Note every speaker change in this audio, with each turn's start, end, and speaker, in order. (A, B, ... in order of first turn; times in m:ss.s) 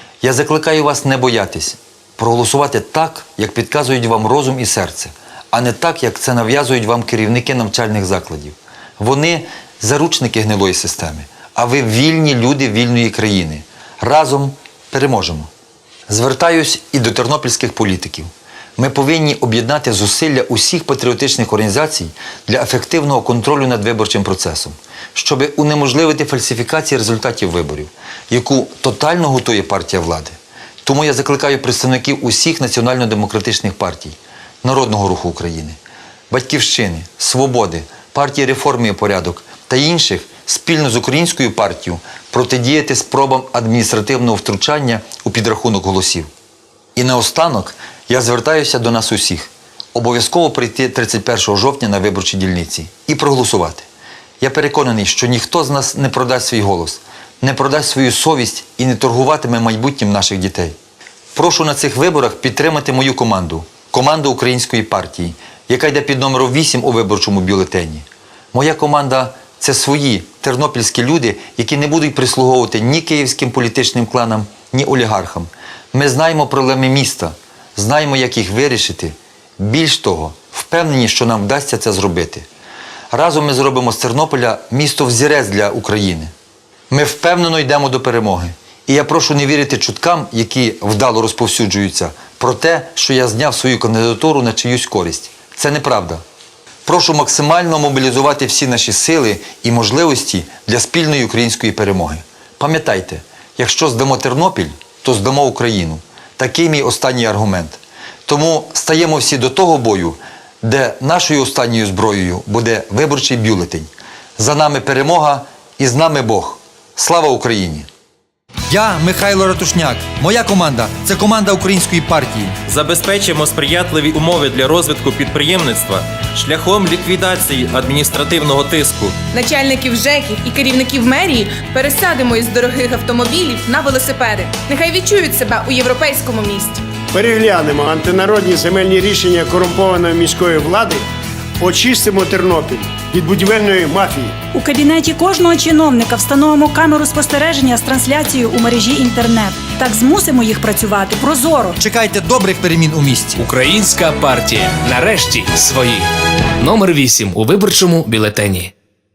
0:00.2-0:15.5 A
0:16.1-0:35.8 A
0:36.3-0:46.3 A
0:47.0-0:53.8 A
0:54.4-1:00.7 A
1:01.3-1:22.4 A
1:23.1-1:26.3 A
1:26.9-1:36.2 A
1:36.8-1:57.9 A
1:58.7-2:02.5 B
2:02.7-2:09.2 C
2:09.3-2:16.8 D
2:17.1-2:21.0 E
2:21.6-2:24.3 E
2:24.5-2:31.8 F
2:31.8-2:33.3 B
2:33.4-2:36.0 G
2:36.6-2:38.7 G